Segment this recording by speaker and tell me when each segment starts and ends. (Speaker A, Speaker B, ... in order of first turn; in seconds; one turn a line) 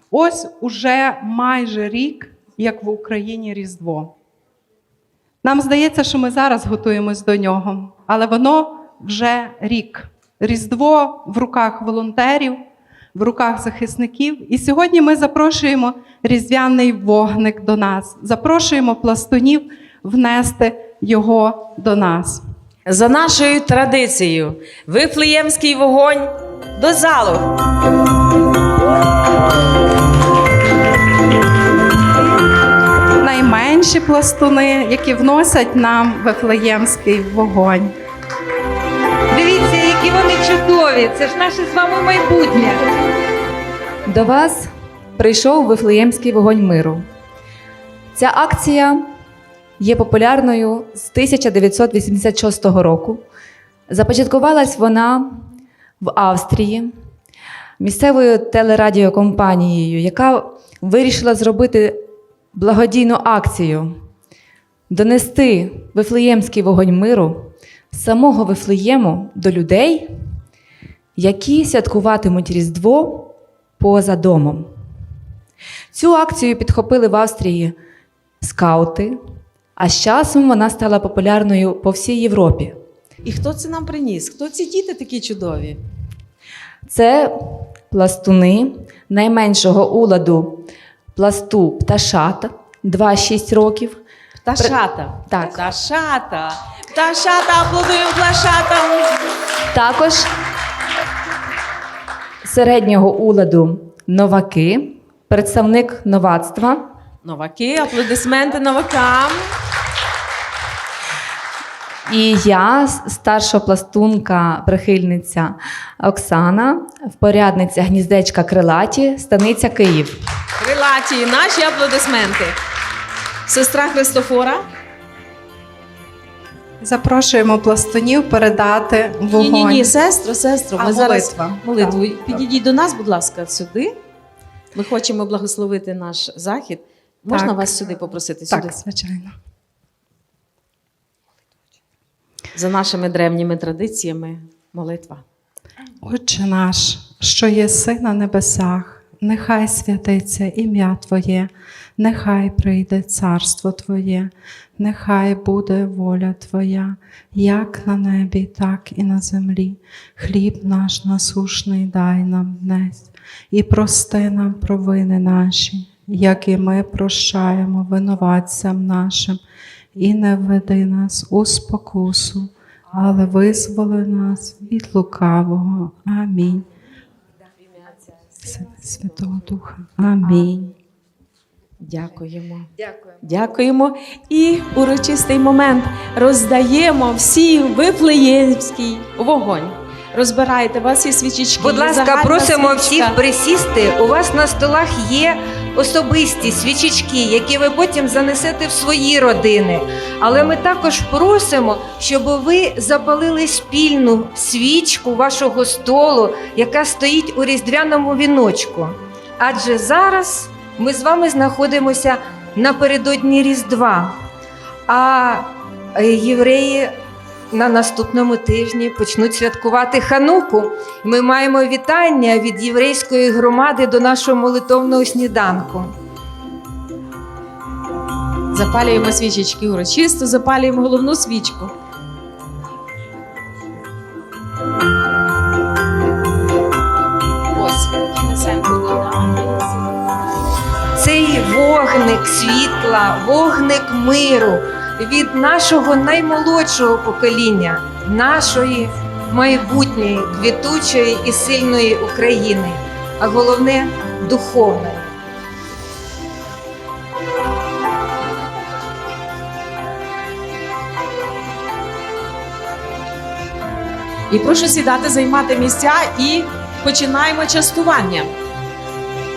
Speaker A: 0.1-4.1
Speaker A: 5.4-12.6
Speaker A: 13.1-22.4
Speaker B: 22.9-27.5
Speaker A: 33.2-37.9
Speaker C: 39.3-43.0
Speaker D: 44.1-47.0
Speaker D: 48.1-49.0
Speaker D: 49.8-53.2
Speaker D: 53.9-55.4
Speaker D: 56.0-56.9
Speaker D: 57.8-62.0
Speaker D: 62.5-63.9
Speaker D: 64.9-70.1
Speaker D: 71.2-74.7
Speaker D: 75.9-77.7
Speaker D: 78.4-79.2
Speaker D: 79.8-82.8
Speaker B: 83.2-85.8
Speaker D: 86.8-94.0
Speaker B: 94.4-99.1
Speaker D: 94.6-95.7
Speaker D: 99.7-100.3
Speaker D: 102.4-106.8
Speaker B: 107.2-109.5
Speaker D: 112.1-120.2
Speaker B: 120.6-122.6
Speaker B: 123.5-124.6
Speaker A: 126.8-130.0
Speaker B: 129.3-133.9
Speaker A: 130.8-132.3
Speaker B: 134.7-138.8
Speaker A: 137.3-138.0
Speaker A: 138.5-139.3
Speaker B: 142.5-145.2
Speaker A: 146.0-169.4
Speaker A: 169.9-176.6
Speaker A: 178.4-180.7
Speaker B: 181.8-182.7
Speaker B: 183.2-193.2
Speaker C: 191.6-214.1
Speaker C: 214.9-216.9
Speaker C: 217.5-225.9
Speaker B: 228.5-231.7
Speaker B: 237.5-239.8
Speaker C: 240.9-255.1
Speaker B: 264.3-268.3